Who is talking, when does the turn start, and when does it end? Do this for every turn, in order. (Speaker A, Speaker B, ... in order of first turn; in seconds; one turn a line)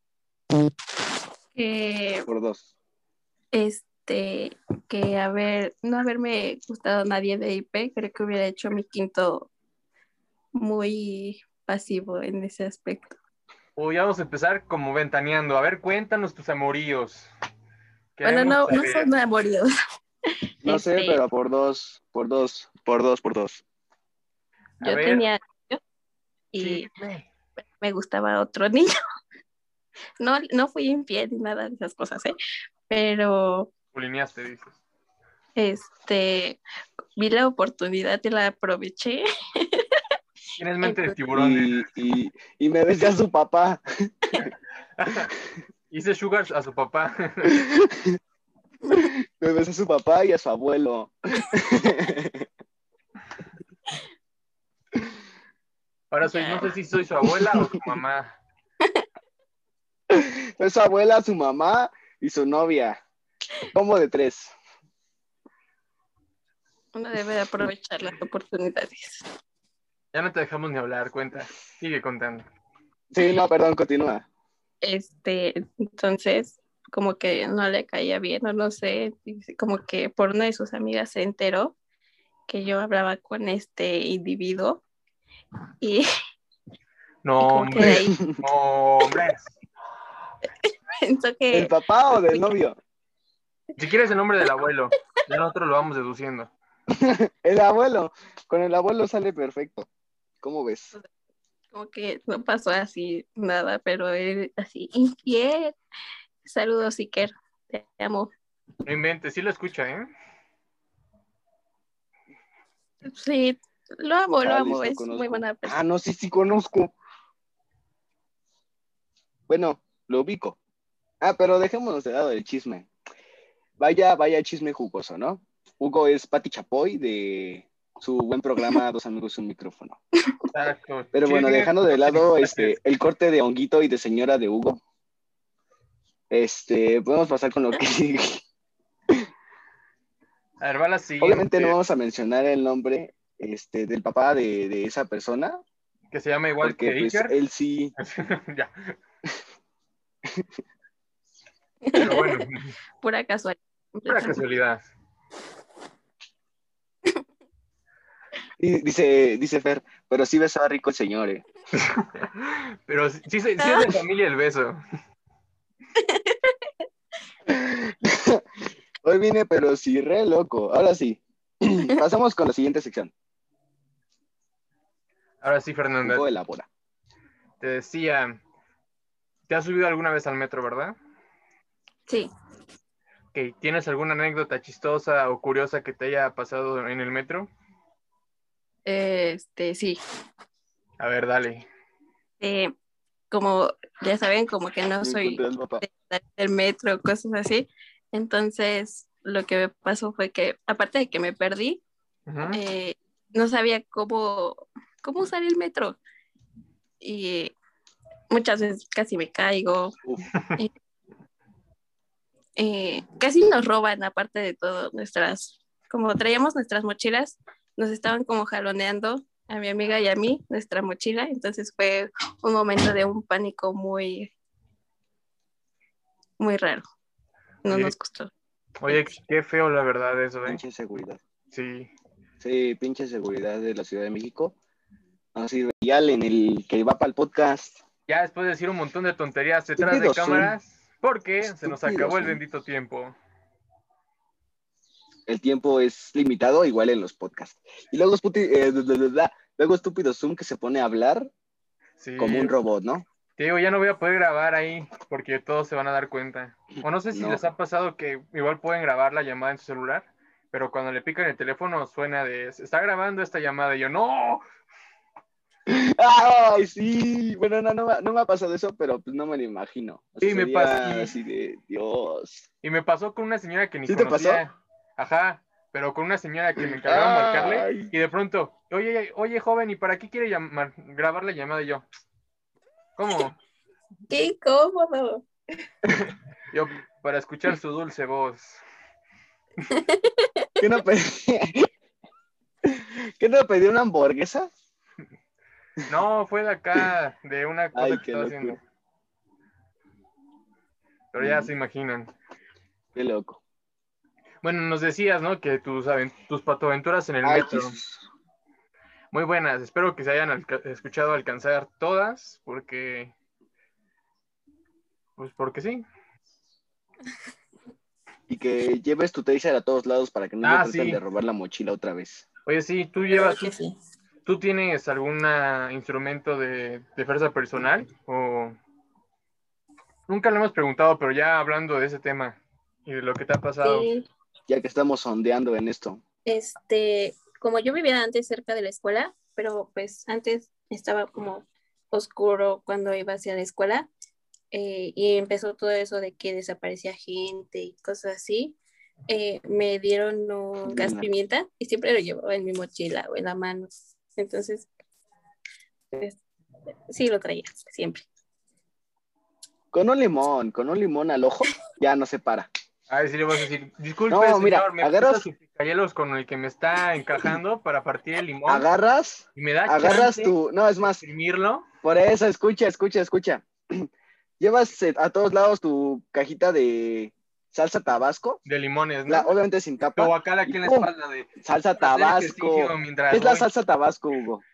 Speaker A: 1.6-2.3
Speaker B: 2.3-2.7
Speaker A: 3.5-9.5
Speaker A: 10.5-13.2
Speaker C: 13.8-17.3
Speaker C: 18.2-19.1
Speaker A: 18.2-19.7
Speaker A: 20.6-21.2
Speaker B: 20.6-23.6
Speaker C: 24.8-25.2
Speaker A: 24.8-25.8
Speaker A: 26.5-26.9
Speaker C: 26.6-27.3
Speaker A: 27.8-28.9
Speaker A: 30.2-32.4
Speaker A: 32.9-33.7
Speaker C: 33.9-34.8
Speaker A: 35.6-36.6
Speaker A: 37.2-40.0
Speaker C: 40.6-41.9
Speaker A: 40.8-41.1
Speaker B: 41.3-44.5
Speaker C: 45.0-45.3
Speaker C: 45.9-47.6
Speaker B: 47.5-48.2
Speaker B: 48.9-52.5
Speaker C: 56.1-58.4
Speaker A: 56.3-56.7
Speaker B: 57.3-57.9
Speaker B: 60.1-63.0
Speaker B: 63.7-64.5
Speaker A: 67.0-69.3
Speaker C: 70.1-72.5
Speaker B: 73.1-74.3
Speaker A: 74.8-81.8
Speaker A: 82.5-84.8
Speaker A: 85.8-86.1
Speaker C: 87.2-89.5
Speaker A: 87.4-88.2
Speaker B: 87.8-88.4
Speaker A: 90.4-92.4
Speaker B: 91.5-92.8
Speaker C: 93.8-96.5
Speaker B: 96.9-99.9
Speaker B: 100.4-101.0
Speaker A: 101.7-105.8
Speaker A: 106.4-108.3
Speaker C: 108.8-110.1
Speaker A: 113.0-115.7
Speaker B: 114.4-116.9
Speaker B: 119.5-120.6
Speaker B: 121.2-122.9
Speaker B: 123.8-130.0
Speaker C: 130.5-132.8
Speaker B: 131.1-134.8
Speaker B: 136.3-138.4
Speaker C: 140.6-141.8
Speaker B: 141.2-145.6
Speaker C: 146.1-147.4
Speaker B: 146.6-147.9
Speaker C: 148.0-148.9
Speaker A: 151.8-152.4
Speaker C: 152.0-152.8
Speaker A: 153.0-154.4
Speaker C: 154.1-154.9
Speaker B: 158.6-161.4
Speaker C: 161.7-164.8
Speaker A: 163.6-163.9
Speaker A: 166.0-166.6
Speaker B: 167.5-168.4
Speaker B: 169.0-173.1
Speaker C: 175.4-176.2
Speaker B: 176.0-176.7
Speaker C: 177.6-178.4
Speaker C: 179.5-180.9
Speaker C: 183.3-187.5
Speaker A: 188.9-190.0
Speaker C: 191.0-191.7
Speaker A: 192.4-192.7
Speaker A: 193.3-201.8
Speaker B: 195.0-195.8
Speaker C: 202.3-202.6
Speaker A: 202.5-206.0
Speaker A: 207.0-207.6
Speaker A: 208.3-210.0
Speaker A: 212.6-224.3
Speaker A: 226.4-226.8
Speaker A: 227.7-228.3
Speaker C: 227.7-227.9
Speaker C: 228.8-230.6
Speaker B: 230.4-231.2
Speaker C: 231.5-231.9
Speaker B: 232.4-234.6
Speaker B: 235.3-237.8
Speaker C: 238.1-243.2
Speaker B: 239.8-240.5
Speaker B: 241.4-242.4
Speaker B: 245.3-251.3
Speaker C: 252.0-252.5
Speaker B: 252.2-253.1
Speaker C: 253.4-264.4
Speaker B: 257.1-257.4
Speaker B: 265.7-272.5
Speaker C: 270.2-271.1
Speaker C: 272.6-281.8
Speaker B: 273.9-274.4
Speaker B: 276.6-277.9
Speaker C: 283.0-283.4
Speaker A: 284.1-285.3
Speaker C: 286.5-288.6
Speaker A: 289.7-290.5
Speaker B: 290.6-291.7
Speaker B: 292.6-294.5
Speaker C: 295.9-298.6
Speaker B: 297.8-298.6
Speaker C: 301.1-302.1
Speaker B: 301.2-301.5
Speaker B: 302.9-303.4
Speaker C: 304.4-307.8
Speaker B: 307.2-308.0
Speaker C: 309.1-313.1
Speaker C: 315.2-315.8
Speaker B: 318.3-322.2
Speaker C: 320.4-321.0
Speaker C: 322.5-323.5
Speaker A: 323.1-323.8
Speaker C: 324.2-328.6
Speaker C: 330.1-333.9
Speaker A: 333.6-334.1
Speaker B: 334.5-336.0
Speaker A: 336.3-343.9
Speaker A: 344.5-348.6
Speaker A: 349.1-354.7
Speaker B: 350.6-351.1
Speaker A: 355.9-356.2
Speaker A: 356.9-358.1
Speaker B: 359.7-362.5
Speaker C: 362.9-368.7
Speaker B: 364.1-365.2
Speaker B: 368.5-371.0
Speaker C: 369.4-370.3
Speaker C: 371.0-371.7
Speaker B: 371.8-373.9
Speaker B: 374.4-378.4
Speaker C: 378.5-379.3
Speaker B: 379.1-384.4
Speaker C: 380.0-383.5